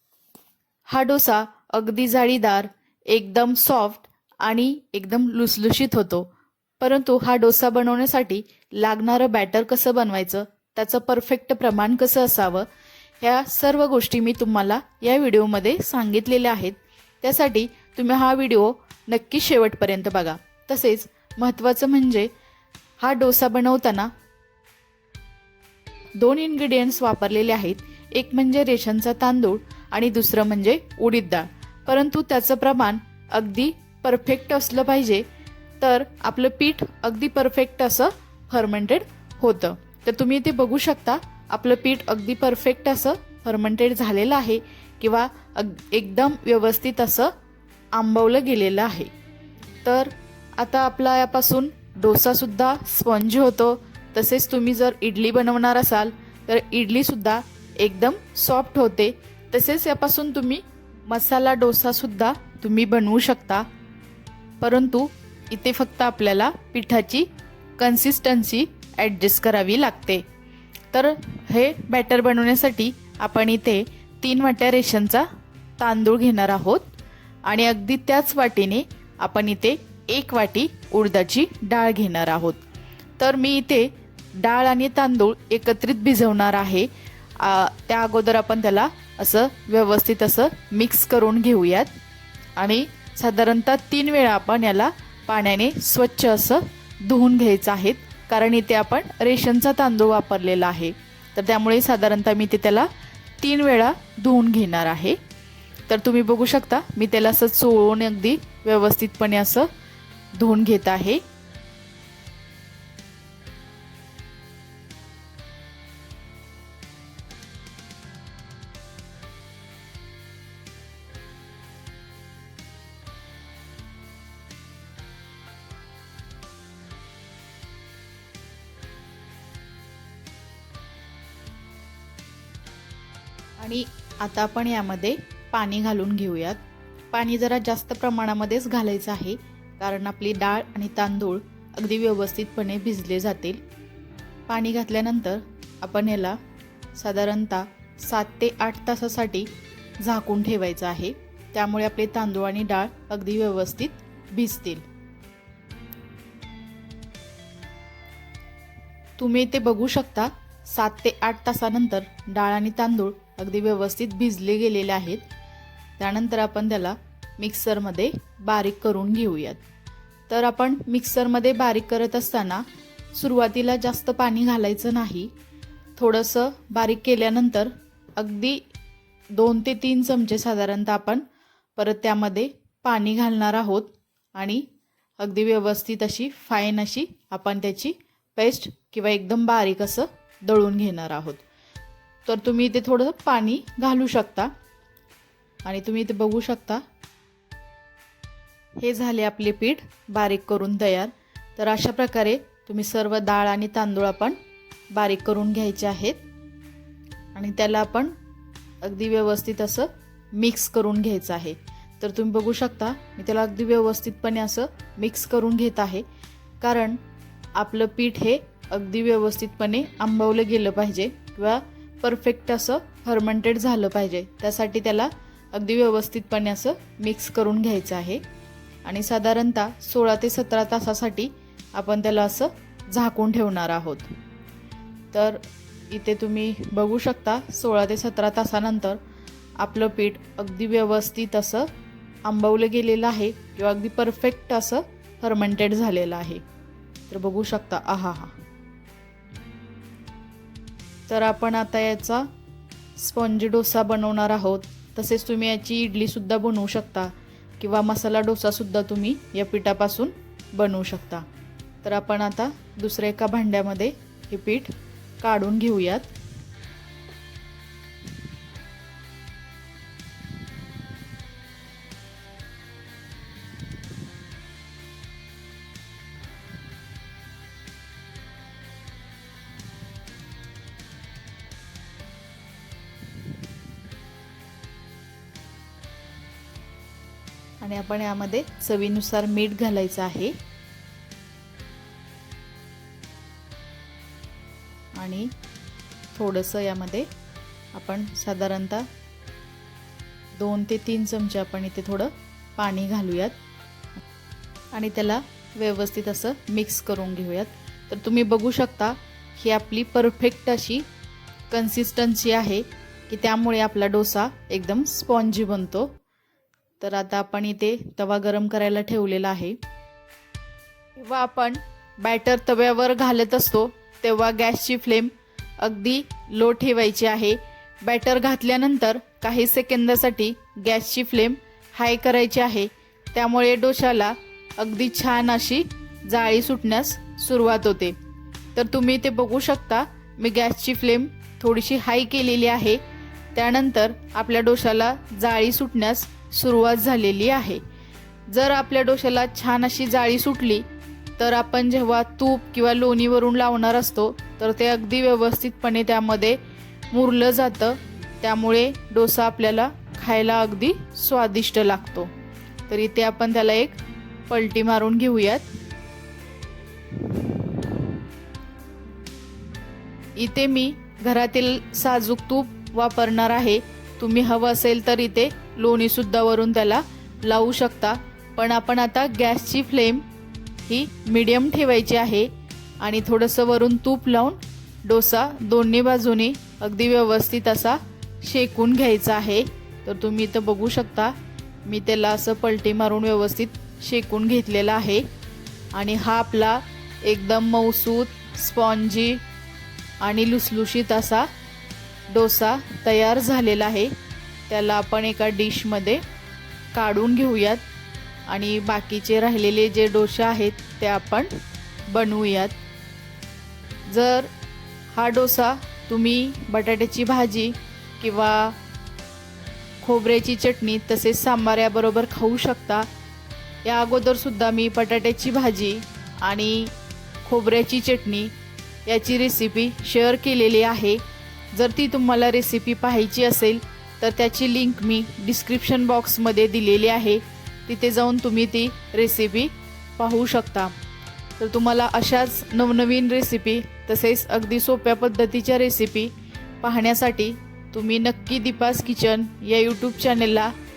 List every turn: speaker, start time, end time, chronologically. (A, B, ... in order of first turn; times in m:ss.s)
0:00.9-0:06.3 A
0:06.8-0:12.7 A
0:13.2-0:22.3 A
0:23.0-0:24.1 A
0:26.2-0:35.3 A
0:35.8-0:47.3 A
0:48.0-0:49.1 A
0:49.8-1:03.7 A
1:04.6-1:07.3 A
1:07.8-1:10.2 A
1:10.9-1:15.3 A
1:15.8-1:16.9 A
1:17.5-1:22.6 A
1:23.2-1:26.9 A
1:27.4-1:31.9 A
1:32.6-1:42.9 A
1:43.4-1:45.2 A
1:45.9-1:49.7 A
1:50.4-1:51.2 A
2:13.6-2:23.6 A
2:24.5-2:26.4 A
2:26.9-2:29.5 A
2:30.0-2:34.8 A
2:39.2-2:45.2 A
2:46.0-2:49.6 A
2:50.3-2:55.3 A
2:56.0-2:58.6 A
2:59.3-3:01.2 A
3:01.8-3:04.6 A
3:05.2-3:11.4 A
3:12.3-3:14.5 A
3:15.6-3:16.8 A
3:18.8-3:24.4 A
3:24.9-3:26.2 A
3:27.4-3:28.1 A
3:28.8-3:36.0 A
3:36.6-3:37.0 A
3:37.6-3:48.2 A
3:48.8-3:54.1 A
3:55.1-3:59.0 A
3:59.6-4:01.7 A
4:02.3-4:06.4 A
4:07.1-4:08.4 A
4:11.1-4:12.3 A
4:13.0-4:21.2 A
4:21.8-4:26.1 A
4:47.6-4:50.3 A
4:55.0-4:55.3 A
4:56.1-4:57.1 A
4:57.7-4:58.9 A
5:00.3-5:03.4 A
5:04.7-5:10.9 A
5:11.5-5:15.9 A
5:16.8-5:19.6 A
5:21.0-5:38.0 A
5:38.6-5:42.8 A
5:43.4-5:47.6 A
5:48.3-5:50.7 A
5:51.2-5:56.4 A
5:56.9-6:02.1 A
6:02.7-6:03.8 A
6:04.3-6:05.6 A
6:10.2-6:20.0 A
6:20.6-6:22.3 A
6:22.8-6:31.1 A
6:31.6-6:35.0 A
6:35.7-6:39.2 A
6:40.0-6:41.3 A
6:42.1-6:43.9 A
6:44.5-6:46.0 A
6:46.7-6:47.6 A
6:48.3-6:51.3 A
6:51.9-6:52.6 A
6:53.9-6:54.3 A
6:54.9-6:58.6 A
6:59.8-7:02.9 A
7:03.6-7:08.3 A
7:08.9-7:11.0 A
7:11.5-7:20.7 A
7:21.4-7:26.1 A
7:26.6-7:30.5 A